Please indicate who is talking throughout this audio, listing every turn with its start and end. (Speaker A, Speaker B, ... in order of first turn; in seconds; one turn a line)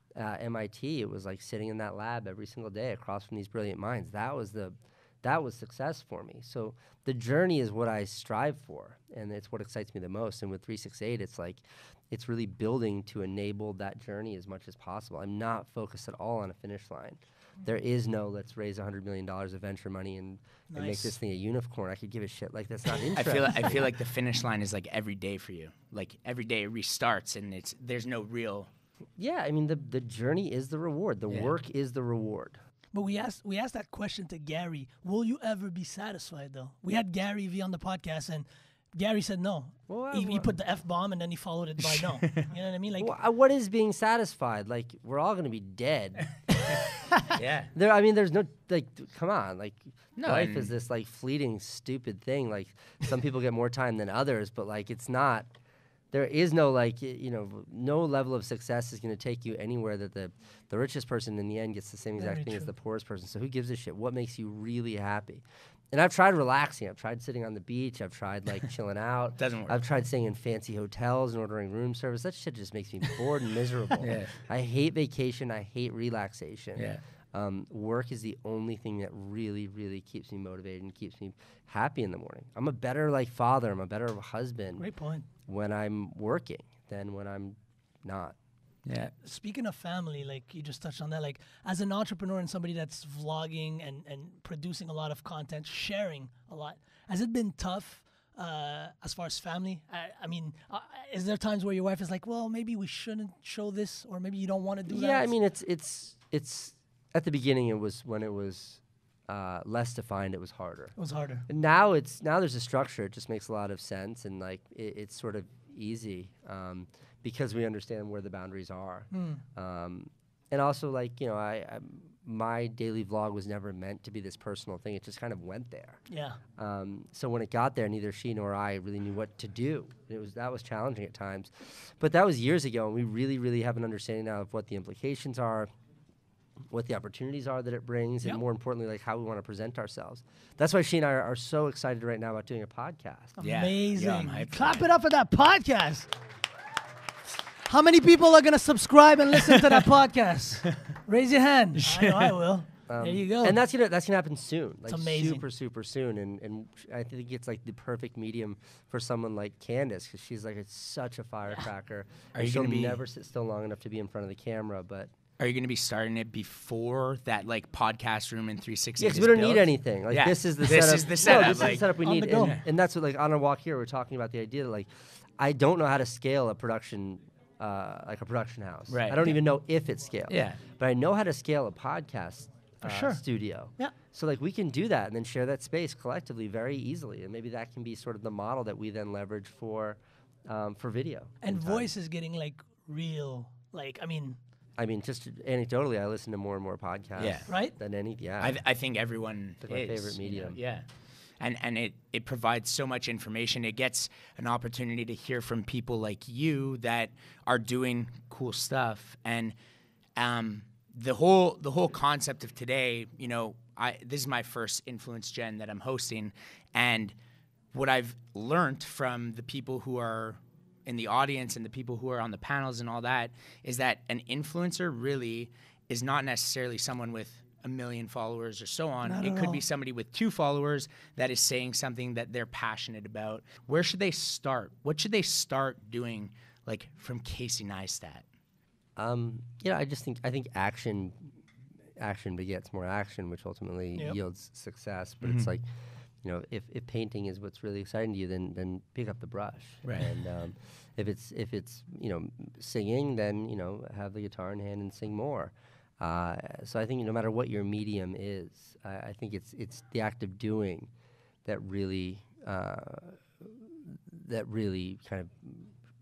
Speaker A: 0.1-23.9
Speaker B: 20.7-21.1
Speaker C: 23.1-28.7
Speaker A: 29.2-32.6
Speaker B: 32.9-43.1
Speaker A: 39.9-40.5
Speaker C: 42.0-42.4
Speaker A: 43.0-46.7
Speaker C: 47.3-47.7
Speaker A: 47.7-55.5
Speaker C: 50.2-50.7
Speaker A: 56.1-84.8
Speaker B: 62.2-62.7
Speaker C: 69.4-69.8
Speaker C: 74.0-74.4
Speaker C: 76.8-77.0
Speaker B: 84.8-85.3
Speaker A: 85.5-88.3
Speaker C: 88.8-89.1
Speaker B: 89.2-105.3
Speaker A: 104.9-110.9
Speaker B: 111.0-111.5
Speaker A: 111.5-126.0
Speaker B: 119.1-119.4
Speaker B: 126.1-126.4
Speaker A: 126.5-135.7
Speaker A: 136.7-143.4
Speaker B: 143.4-146.1
Speaker C: 143.4-144.8
Speaker B: 147.6-153.6
Speaker C: 149.4-149.8
Speaker C: 151.8-152.3
Speaker A: 152.9-165.1
Speaker B: 154.9-155.4
Speaker C: 162.3-163.0
Speaker C: 165.4-172.6
Speaker A: 169.0-191.9
Speaker B: 171.8-172.6
Speaker C: 178.9-179.3
Speaker C: 180.3-180.6
Speaker B: 182.8-183.2
Speaker B: 191.4-194.4
Speaker A: 194.8-198.6
Speaker C: 197.2-197.5
Speaker B: 197.5-197.7
Speaker C: 198.4-200.8
Speaker A: 199.6-200.6
Speaker C: 201.4-209.5
Speaker C: 210.2-217.1
Speaker C: 217.7-238.2
Speaker B: 229.0-229.6
Speaker A: 239.0-241.3
Speaker A: 242.0-245.6
Speaker C: 245.2-245.5
Speaker A: 246.2-260.9
Speaker C: 249.8-250.1
Speaker A: 261.4-265.7